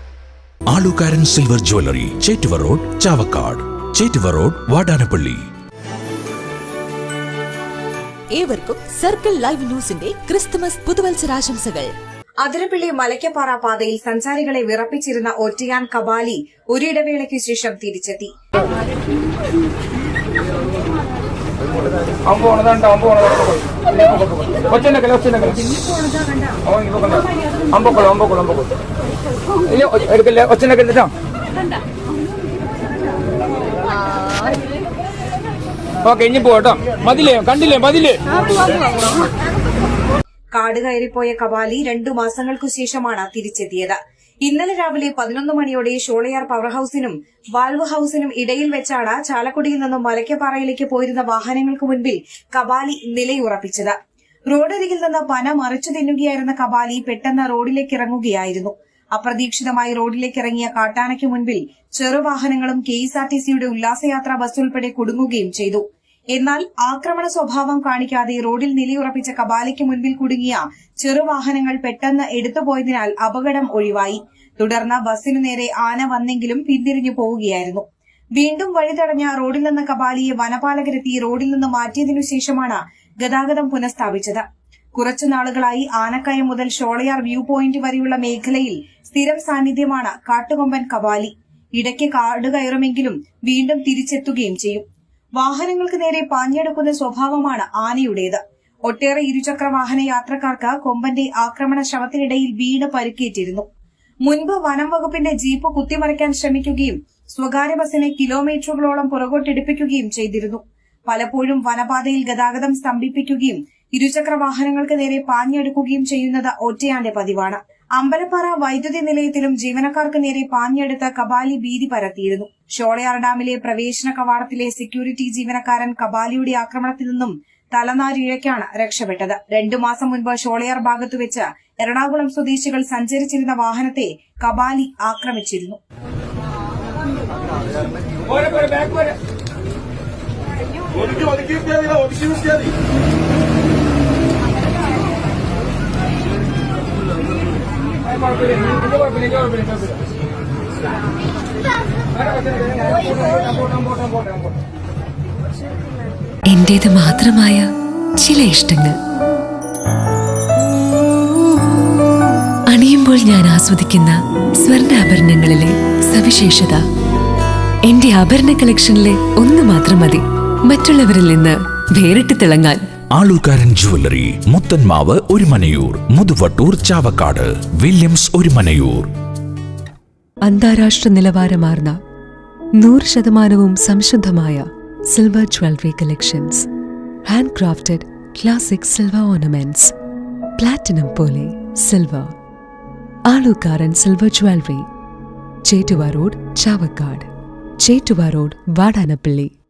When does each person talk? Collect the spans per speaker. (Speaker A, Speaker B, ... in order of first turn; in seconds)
Speaker A: 0.7-5.4, 173.1-179.1
Speaker B: 8.3-11.9
Speaker C: 12.4-18.3, 25.8-26.5, 40.5-53.9, 54.5-65.8, 66.3-77.8, 78.3-84.4, 85.0-94.8, 95.4-103.6, 104.2-135.8
Speaker D: 22.2-25.8, 26.7-28.7, 29.7-31.1, 36.0-38.2, 138.3-139.1, 148.5-149.7, 152.2-154.4
Speaker E: 156.5-157.6, 158.2-158.9, 162.7-166.8, 167.9-170.2, 170.7-172.8, 180.5-181.9, 182.8-184.6, 185.1-186.6, 187.3-189.9, 190.6-192.2, 193.3-194.8, 195.7-197.2, 197.9-199.5